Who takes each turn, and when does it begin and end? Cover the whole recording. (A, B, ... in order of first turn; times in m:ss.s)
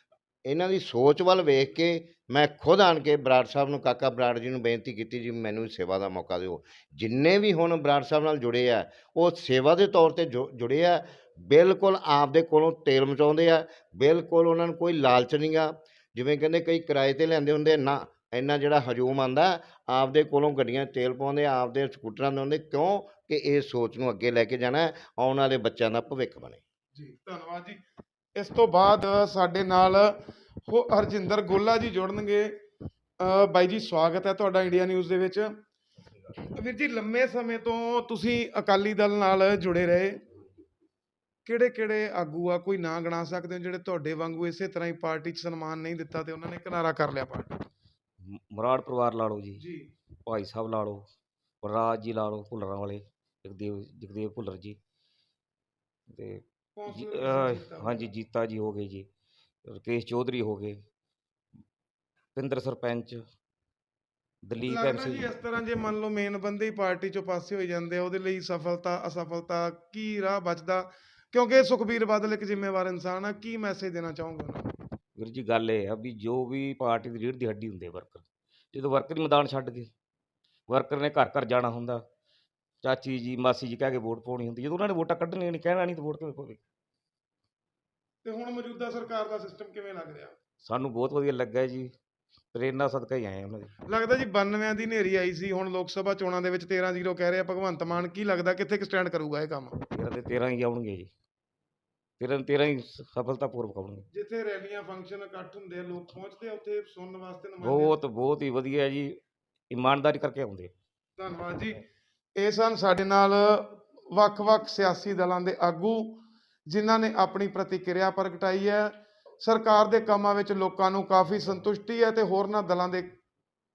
0:00.4-0:26.6 A
0:26.9-0:27.8 B
0:28.4-0:32.5 B
0:33.2-0:35.5 B
0:36.5-0:40.2 B
0:41.4-0:47.6 B
0:48.2-0:49.6 C
0:49.6-0:49.9 B
0:50.2-0:51.1 C
0:51.6-0:54.8 C
0:56.1-0:59.1 C
0:56.8-0:58.1 B
0:59.6-1:00.8 C
1:02.3-1:03.3 C
1:04.4-1:05.3 C
1:04.6-1:14.7 B
1:15.1-1:19.9 C
1:20.7-1:22.0 C
1:22.8-1:26.6 C
1:28.2-1:30.4 B
1:30.6-1:31.9 C
1:32.5-1:33.7 C
1:33.9-1:39.8 B
1:39.9-1:41.1 C
1:42.2-1:44.1 C
1:44.1-1:48.0 B
1:47.6-1:50.7 C
1:51.2-1:51.8 B
1:52.4-2:03.1 B